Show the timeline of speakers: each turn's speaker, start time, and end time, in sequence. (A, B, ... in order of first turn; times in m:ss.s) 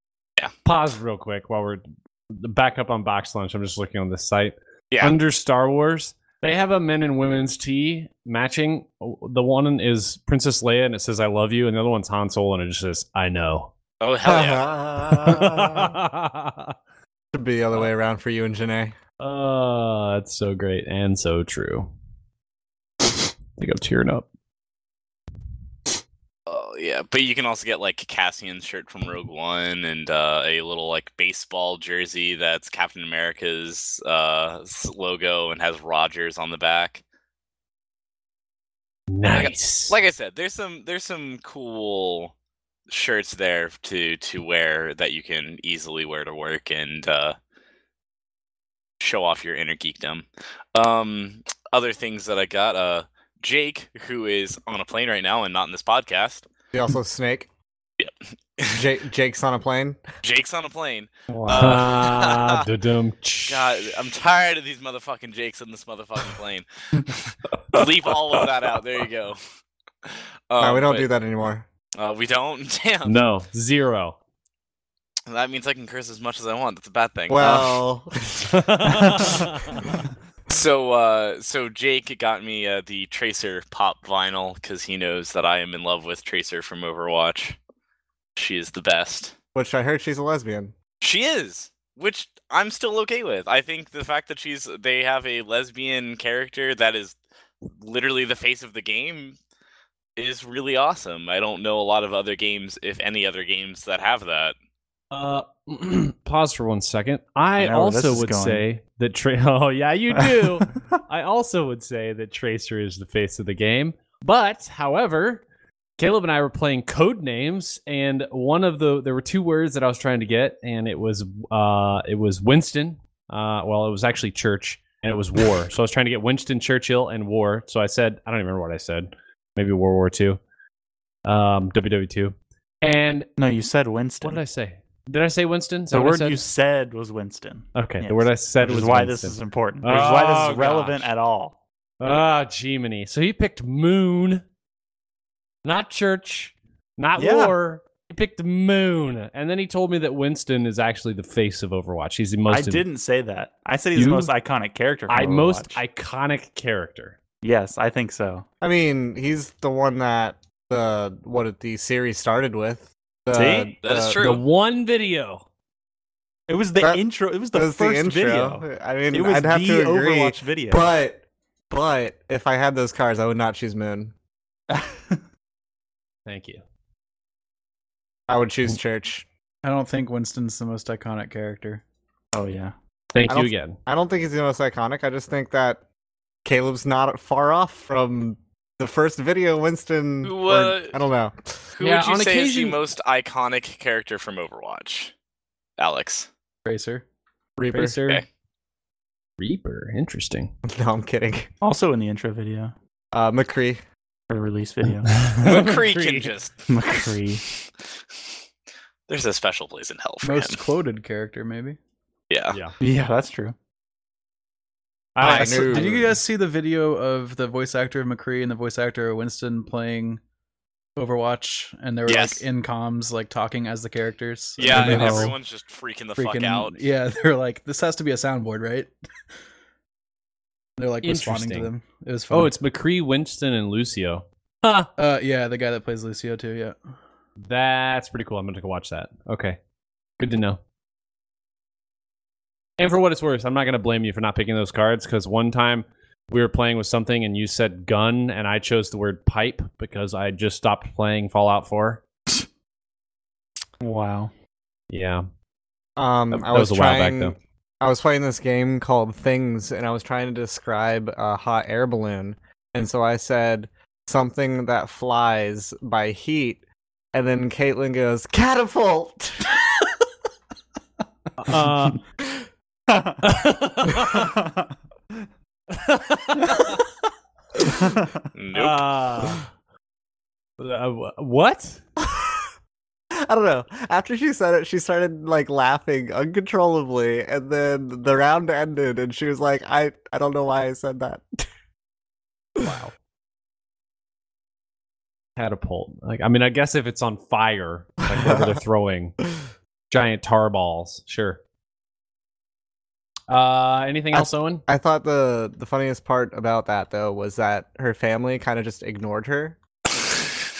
0:00.6-0:13.7 A
0:04.9-0:05.2 B
0:14.0-0:14.7 B
0:14.2-0:15.9 C
0:15.0-0:16.7 A
0:17.3-0:18.9 C
0:19.2-0:21.9 A
0:23.6-0:24.3 A
0:26.5-0:37.0 B
0:39.1-0:40.0 A
0:39.3-0:42.3 B
0:42.9-0:47.4 B
0:49.0-0:56.5 B
0:56.7-0:57.5 C
0:58.0-0:58.8 B
0:58.7-1:00.0 C
1:00.2-1:02.6 B
1:01.3-1:01.8 D
1:01.5-1:03.9 A
1:03.5-1:09.4 B
1:10.0-1:11.1 B
1:10.6-1:11.6 C
1:12.0-1:13.1 B
1:13.0-1:14.2 A
1:15.3-1:17.8 B
1:17.3-1:18.6 C
1:18.5-1:19.8 A
1:20.5-1:27.6 B
1:28.4-1:29.3 B
1:29.5-1:30.7 C
1:31.0-1:37.2 B
1:37.8-1:39.4 B
1:40.2-1:44.5 B
1:45.1-1:55.4 A
1:47.6-1:48.6 D
1:56.0-2:10.4 A
2:11.2-2:13.3 A
2:13.4-2:14.4 D
2:14.2-2:16.4 A
2:15.9-2:21.6 D
2:17.7-2:21.1 A
2:22.0-2:24.4 A
2:25.6-2:32.8 A
2:27.2-2:27.5 D
2:32.5-2:35.8 D
2:33.9-2:34.3 A
2:35.1-2:37.2 A
2:37.4-2:38.4 D
2:38.6-2:44.2 C
2:43.3-2:43.7 D
2:43.8-2:44.4 B
2:44.2-2:45.4 A
2:46.5-2:50.9 D
2:47.5-2:54.1 C
2:54.7-2:55.2 D
2:56.2-2:56.6 A
2:58.3-2:59.2 C
2:59.6-3:01.8 E
3:02.3-3:02.7 D
3:03.1-3:03.8 A
3:03.3-3:05.8 C
3:06.4-3:11.5 C
3:10.2-3:11.0 B
3:11.7-3:15.1 B
3:11.8-3:12.8 A
3:15.8-3:16.3 B
3:16.6-3:17.0 E
3:17.6-3:18.0 C
3:17.7-3:18.2 A
3:19.4-3:20.5 A
3:20.7-3:21.5 C
3:21.6-3:22.7 D
3:23.1-3:23.8 C
3:24.3-3:25.3 D
3:25.3-3:26.3 A
3:25.4-3:26.7 B
3:26.7-3:27.4 D
3:29.1-3:30.6 B
3:30.2-3:31.8 E
3:32.3-3:32.6 B
3:32.8-3:33.6 D
3:35.2-3:35.9 A
3:35.2-3:36.1 C
3:35.2-3:40.2 E
3:41.0-3:45.4 E
3:42.1-3:42.4 B
3:44.6-3:46.8 B
3:44.7-3:45.3 D
3:46.2-3:48.9 E
3:50.8-3:52.5 E
3:51.0-3:51.7 A
3:52.3-3:54.9 A
3:55.0-3:56.8 E
3:57.4-3:59.6 A
4:00.2-4:00.6 A
4:02.8-4:12.0 A
4:13.8-4:14.3 D
4:14.9-4:15.2 A
4:16.0-4:29.6 C
4:16.3-4:17.4 A
4:31.4-4:32.0 A
4:32.9-4:33.3 D
4:33.2-4:34.3 A
4:34.2-4:34.6 D
4:35.7-4:36.8 A
4:37.8-4:38.1 D
4:38.3-4:38.8 B
4:38.5-4:39.5 A
4:40.6-4:41.8 A
4:42.0-4:42.5 C
4:43.2-4:51.2 C
4:52.6-4:52.9 A
4:55.4-4:59.2 A
4:58.1-4:58.6 C
4:59.9-5:01.4 A
5:03.3-5:04.6 A
5:04.1-5:09.6 C